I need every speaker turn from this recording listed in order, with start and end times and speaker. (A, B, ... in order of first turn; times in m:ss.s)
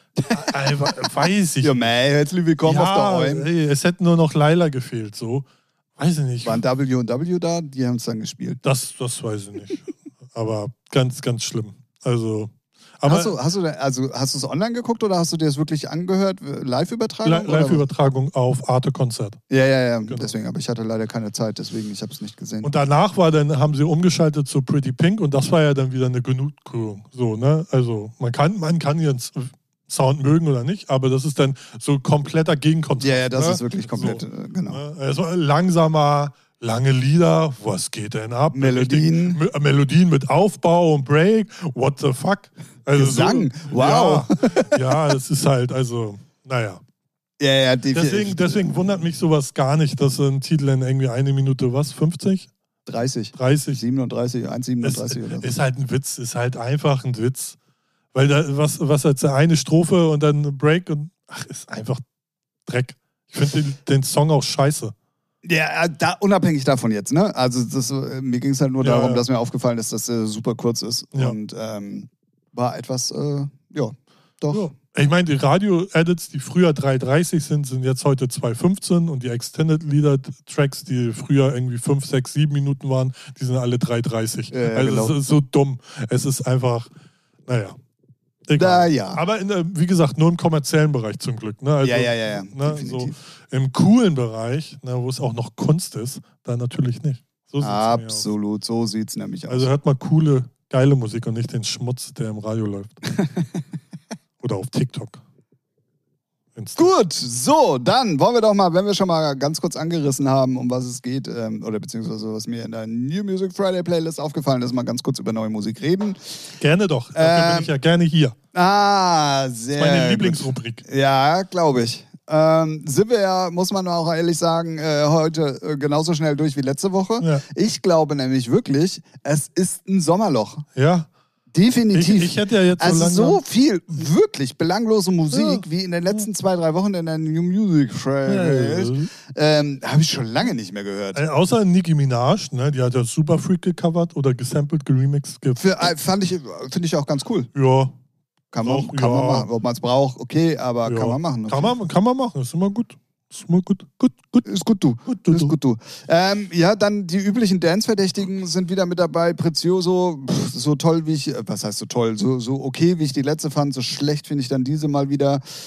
0:00.3-0:01.9 A
0:01.6-0:03.5 B
0:02.6-0:06.6 A
0:06.4-0:08.6 B
0:08.6-0:13.4 A
0:13.1-0:17.8 B
0:17.2-0:19.4 A
0:19.5-0:22.7 B
0:22.6-0:46.8 A
0:33.0-0:34.8 B
0:38.5-0:39.4 B
0:43.0-0:44.8 B
0:47.4-0:48.7 B
0:47.9-0:52.5 A
0:52.9-0:55.5 B
0:53.4-0:53.8 A
0:54.8-0:57.6 A
0:58.1-1:02.0 A
1:02.7-1:04.9 A
1:05.4-1:14.7 B
1:08.8-1:09.2 A
1:14.5-1:26.9 A
1:24.5-1:25.2 B
1:27.5-1:27.8 A
1:28.5-1:38.2 A
1:28.6-1:29.2 B
1:31.8-1:33.2 B
1:37.6-1:39.7 B
1:39.5-1:43.0 A
1:44.4-1:45.2 A
1:46.6-1:46.9 A
1:46.8-1:56.2 B
1:56.6-1:58.4 A
1:57.2-1:57.7 B
1:58.5-2:10.7 B
1:59.8-2:00.8 A
2:10.8-2:11.1 A
2:11.5-2:21.2 B
2:11.9-2:13.4 A
2:15.3-2:16.2 A
2:18.3-2:19.1 A
2:21.2-2:25.6 A
2:25.6-2:27.5 B
2:27.5-2:27.9 A
2:28.5-2:31.8 B
2:28.6-2:29.5 A
2:30.8-2:34.5 A
2:34.4-2:45.4 B
2:35.1-2:35.6 A